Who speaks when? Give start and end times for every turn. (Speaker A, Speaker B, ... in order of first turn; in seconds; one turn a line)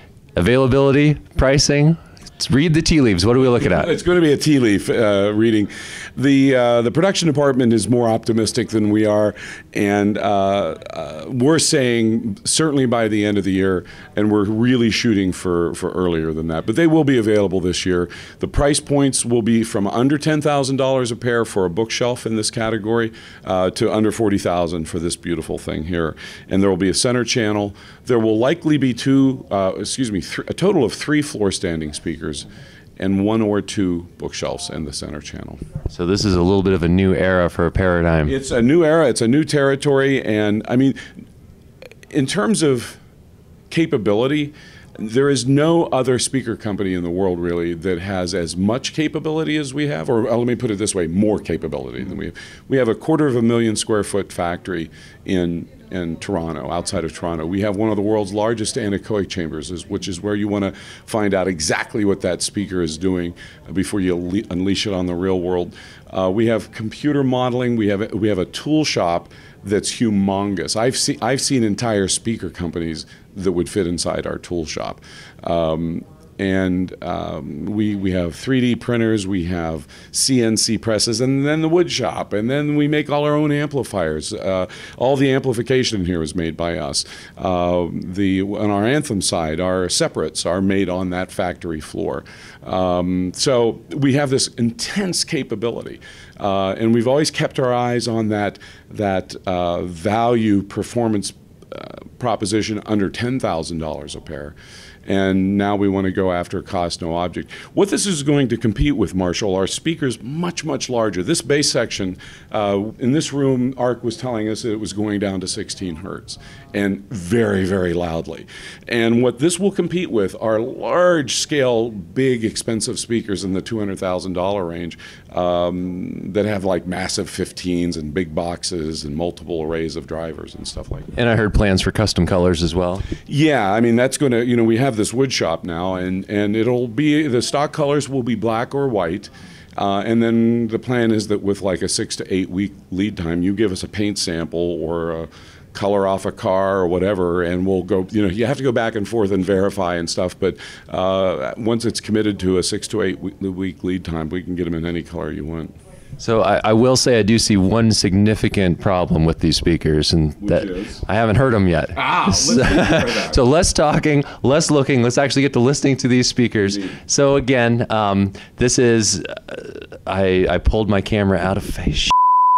Speaker A: 0.3-3.9
Speaker B: 3.5-32.5
Speaker B: 33.0-35.6
Speaker A: 35.9-38.3
Speaker B: 38.3-41.0
Speaker B: 42.1-43.0
Speaker B: 43.7-131.1
Speaker A: 131.1-133.1
Speaker B: 133.2-155.7
Speaker A: 156.2-172.1
Speaker B: 160.4-161.0
Speaker B: 161.9-163.4